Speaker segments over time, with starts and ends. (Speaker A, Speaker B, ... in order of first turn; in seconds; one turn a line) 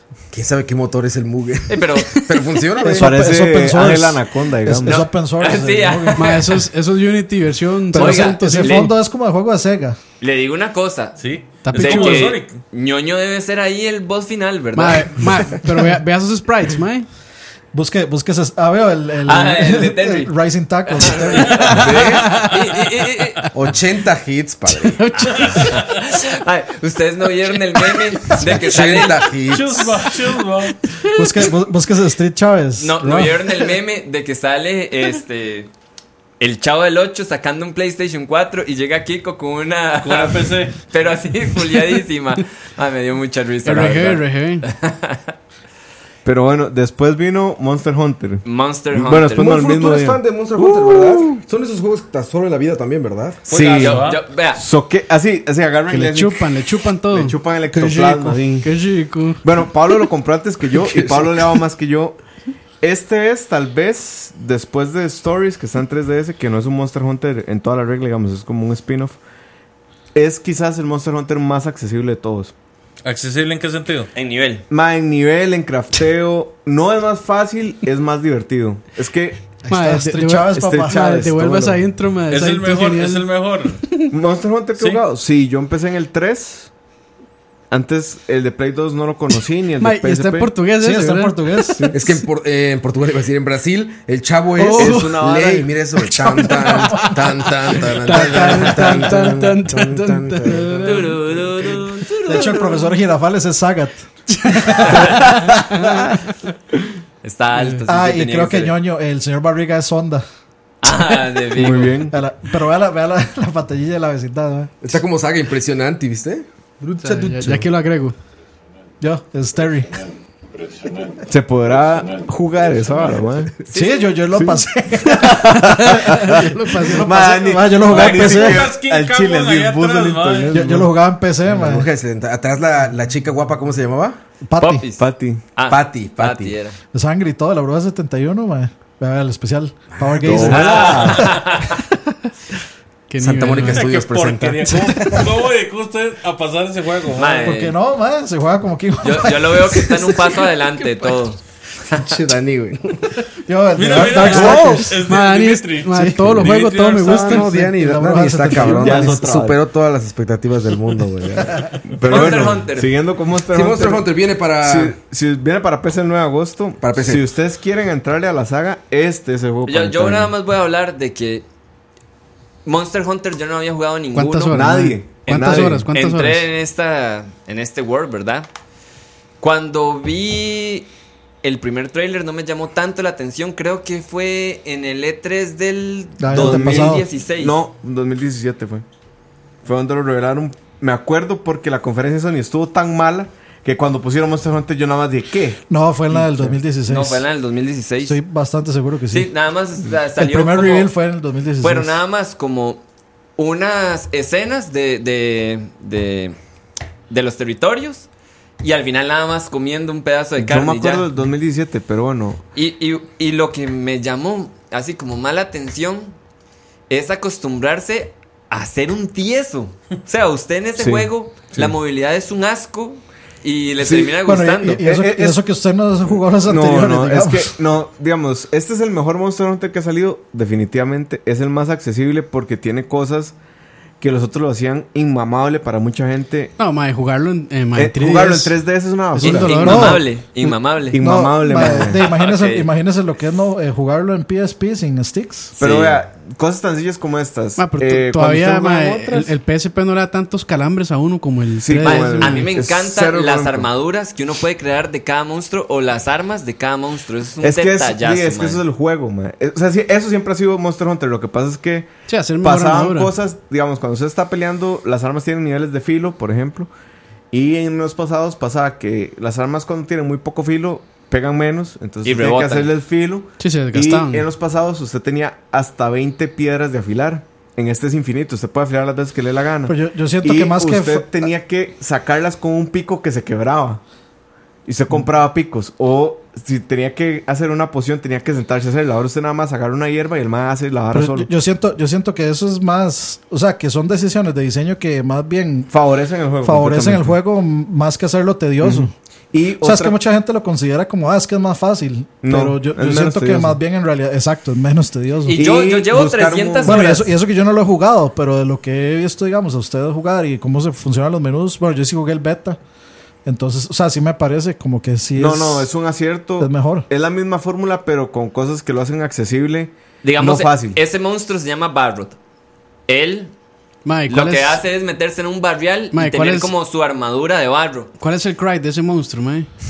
Speaker A: 0.3-3.1
Speaker B: 1.7-2.2
Speaker C: 2.8-6.2
Speaker D: 2.9-5.1
Speaker B: 4.8-6.6
Speaker E: 6.2-8.9
Speaker B: 7.9-8.9
Speaker C: 7.9-10.0
Speaker B: 10.2-15.5
Speaker F: 11.2-12.6
Speaker E: 11.6-12.3
Speaker E: 14.7-17.1
Speaker C: 17.7-21.8
Speaker B: 19.2-20.3
Speaker B: 20.9-23.5
Speaker A: 21.0-22.4
Speaker F: 21.3-22.6
Speaker A: 23.5-25.0
Speaker E: 24.8-25.8
Speaker B: 25.1-29.6
Speaker F: 25.3-26.0
Speaker E: 27.8-28.4
Speaker A: 28.4-29.9
Speaker F: 29.5-30.9
Speaker C: 31.1-33.4
Speaker B: 32.8-35.7
Speaker B: 36.4-45.3
Speaker F: 40.0-40.8
Speaker E: 43.6-44.6
Speaker D: 46.2-51.4
Speaker B: 48.4-49.5
Speaker A: 49.4-53.9
Speaker F: 53.5-54.2
Speaker D: 53.5-53.9
Speaker B: 53.8-54.6
Speaker D: 54.5-56.5
Speaker E: 55.9-59.4
Speaker D: 57.1-58.7
Speaker D: 59.4-62.2
Speaker A: 60.8-61.5
Speaker D: 62.8-69.2
Speaker D: 70.1-72.5
Speaker F: 73.0-74.1
Speaker B: 74.1-74.6
Speaker D: 74.7-79.5
Speaker C: 79.7-81.0
Speaker E: 79.7-84.1
Speaker D: 80.6-81.8
Speaker F: 82.3-83.8
Speaker D: 84.1-86.7
Speaker D: 87.7-90.5
Speaker E: 89.8-91.8
Speaker C: 90.8-91.9
Speaker D: 91.7-92.0
Speaker A: 91.9-101.0
Speaker E: 94.6-95.2
Speaker D: 94.7-95.7
Speaker E: 96.0-101.1
Speaker D: 98.9-99.6
Speaker B: 100.8-103.0
Speaker C: 102.2-105.8
Speaker E: 104.4-106.1
Speaker B: 104.8-105.4
Speaker B: 107.2-108.7
Speaker C: 107.9-110.2
Speaker B: 110.8-112.1
Speaker D: 111.5-112.1
Speaker C: 112.1-115.0
Speaker A: 114.8-117.7
Speaker E: 117.0-118.2
Speaker C: 119.0-120.0
Speaker D: 121.2-123.6
Speaker C: 123.7-128.7
Speaker D: 124.3-130.9
Speaker E: 125.9-127.1
Speaker F: 127.9-130.6
Speaker C: 130.5-131.9
Speaker A: 131.4-134.2
Speaker C: 134.5-134.8
Speaker B: 134.6-136.8
Speaker D: 135.0-135.4
Speaker A: 135.7-136.6
Speaker C: 136.9-141.3
Speaker A: 140.1-140.5
Speaker D: 140.2-141.3
Speaker B: 140.4-141.8
Speaker F: 140.8-141.4
Speaker E: 143.1-143.9
Speaker A: 143.2-145.2
Speaker F: 143.5-147.5
Speaker E: 144.7-145.2
Speaker B: 147.1-147.8
Speaker C: 147.3-149.9
Speaker B: 149.0-152.3
Speaker A: 151.9-153.0
Speaker C: 153.5-154.9
Speaker F: 153.8-157.4
Speaker E: 154.2-157.7
Speaker D: 154.3-154.9
Speaker C: 155.9-156.4
Speaker A: 157.0-162.2
Speaker C: 157.3-159.3
Speaker D: 158.5-159.6
Speaker D: 161.8-164.1
Speaker B: 162.0-162.9
Speaker A: 163.5-164.9
Speaker D: 164.6-170.3
Speaker A: 166.8-167.2
Speaker B: 169.7-171.4
Speaker B: 172.6-174.6
Speaker E: 174.1-176.5
Speaker D: 174.5-175.9
Speaker B: 175.3-178.5
Speaker B: 179.4-180.9
Speaker B: 181.4-187.5
Speaker C: 186.2-187.1
Speaker D: 186.3-188.8
Speaker D: 189.6-196.5
Speaker C: 195.7-197.2
Speaker B: 196.8-198.2
Speaker C: 198.0-199.3
Speaker B: 199.1-200.9
Speaker C: 200.2-202.0
Speaker B: 201.6-202.8
Speaker B: 203.4-206.4
Speaker B: 207.1-208.1
Speaker B: 208.6-211.1
Speaker D: 210.4-212.4
Speaker B: 212.5-216.1
Speaker B: 216.9-224.8
Speaker D: 220.8-221.7
Speaker D: 223.8-224.1
Speaker C: 224.2-227.5
Speaker D: 224.8-225.4
Speaker D: 226.4-233.3
Speaker D: 234.0-236.5
Speaker E: 236.6-238.5
Speaker D: 237.7-239.9
Speaker E: 239.1-240.0
Speaker B: 239.2-242.7
Speaker C: 239.6-240.0
Speaker D: 240.9-242.0
Speaker C: 241.0-245.6
Speaker B: 245.6-246.0
Speaker D: 245.6-249.3
Speaker E: 247.6-252.5
Speaker D: 251.6-253.7
Speaker B: 251.8-258.6
Speaker D: 257.4-266.7
Speaker E: 262.1-263.1
Speaker D: 267.3-283.8
Speaker B: 272.0-272.7
Speaker E: 273.4-274.3
Speaker C: 279.7-281.1
Speaker D: 284.6-291.3
Speaker C: 290.9-295.7
Speaker D: 295.7-297.1
Speaker C: 296.4-298.9
Speaker D: 298.6-300.0
Speaker C: 299.6-305.4
Speaker D: 302.2-303.6
Speaker B: 305.3-307.1
Speaker D: 305.3-306.8
Speaker C: 306.6-312.6
Speaker C: 313.2-315.7
Speaker D: 315.1-320.8
Speaker C: 316.4-316.9
Speaker B: 320.0-322.2
Speaker B: 322.9-323.3
Speaker E: 323.8-324.6
Speaker B: 324.1-327.9
Speaker E: 325.9-326.5
Speaker E: 328.0-329.5